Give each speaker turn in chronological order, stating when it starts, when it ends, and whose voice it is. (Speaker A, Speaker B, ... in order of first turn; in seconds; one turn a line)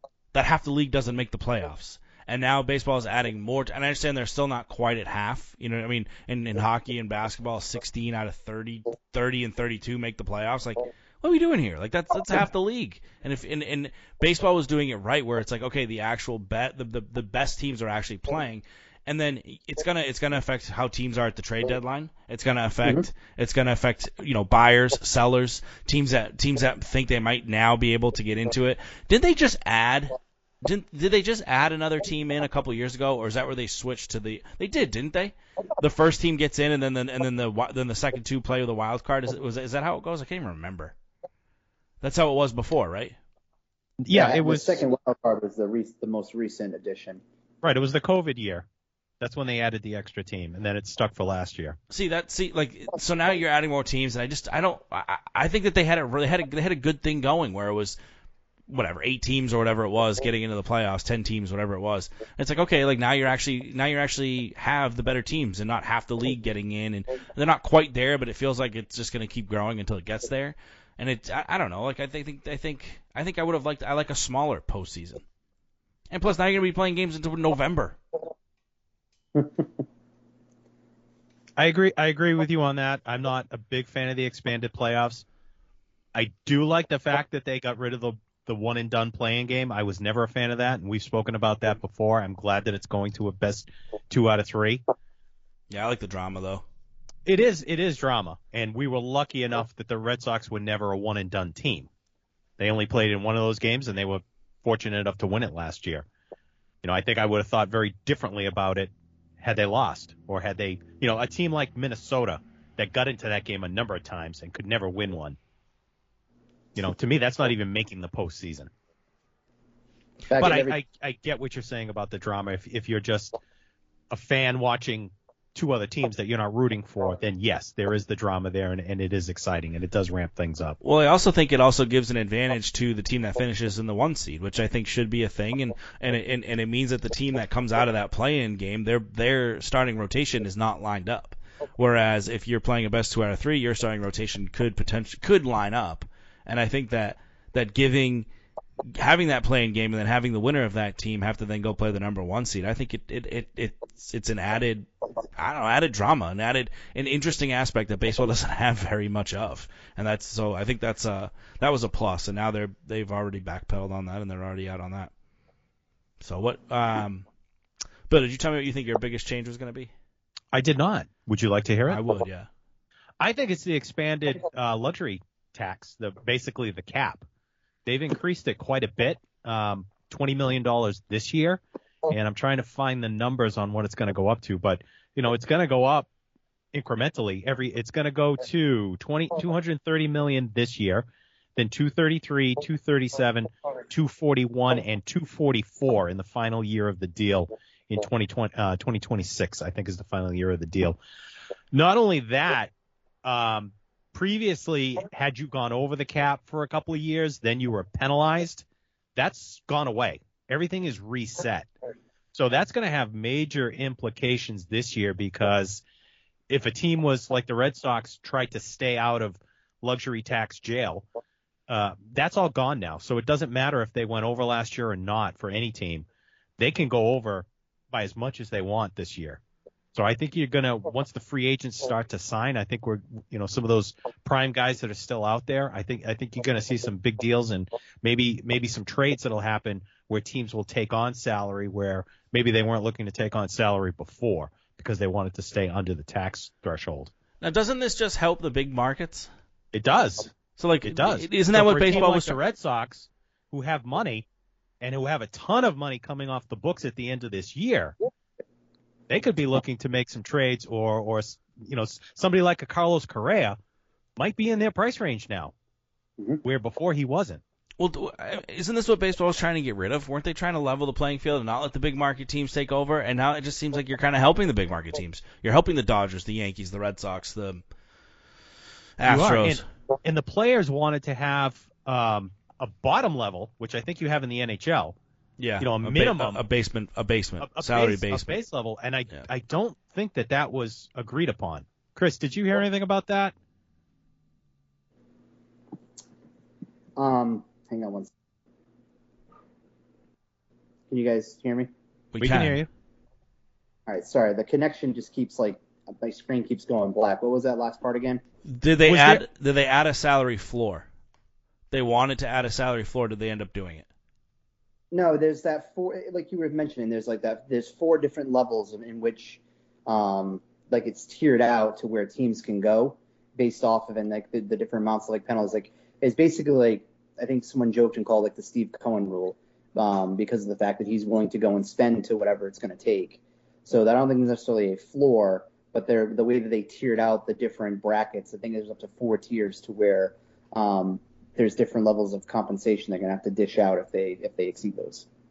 Speaker A: 0.3-41.0
Speaker A: 42.0-43.2
Speaker B: 44.0-44.8
Speaker C: 44.1-47.2
Speaker B: 47.6-48.6
Speaker B: 49.2-51.8
Speaker A: 51.9-58.0
Speaker A: 58.7-75.2
Speaker A: 76.1-78.0
Speaker B: 81.6-85.2
Speaker B: 86.1-94.8
Speaker A: 95.7-96.6
Speaker B: 97.2-101.9
Speaker B: 102.6-106.1
Speaker B: 106.8-115.4
Speaker B: 116.8-118.7
Speaker C: 120.3-120.8
Speaker B: 120.4-123.4
Speaker B: 124.1-130.8
Speaker A: 130.8-148.3
Speaker A: 148.9-165.1
Speaker A: 166.2-167.2
Speaker A: 168.1-169.9
Speaker B: 170.5-172.0
Speaker A: 171.9-172.5
Speaker B: 173.2-177.2
Speaker B: 177.8-186.1
Speaker B: 186.7-201.0
Speaker B: 201.7-202.7
Speaker B: 203.2-208.7
Speaker B: 209.2-211.7
Speaker B: 212.3-215.8
Speaker B: 216.5-221.1
Speaker B: 221.7-226.1
Speaker B: 226.6-229.4
Speaker B: 229.9-247.1
Speaker A: 247.4-249.3
Speaker B: 249.7-254.3
Speaker A: 250.6-252.4
Speaker B: 254.8-257.9
Speaker B: 259.1-263.6
Speaker B: 264.2-265.5
Speaker B: 266.4-267.4
Speaker A: 267.8-277.6
Speaker A: 279.0-279.6
Speaker B: 279.0-285.0
Speaker A: 285.4-288.4
Speaker B: 285.6-286.4
Speaker B: 287.4-293.3
Speaker C: 297.0-298.1
Speaker C: 300.9-301.7
Speaker A: 302.1-302.6
Speaker B: 302.2-302.7
Speaker C: 303.9-308.2
Speaker A: 308.5-310.9
Speaker B: 308.9-309.2
Speaker A: 311.7-313.9
Speaker C: 314.9-345.1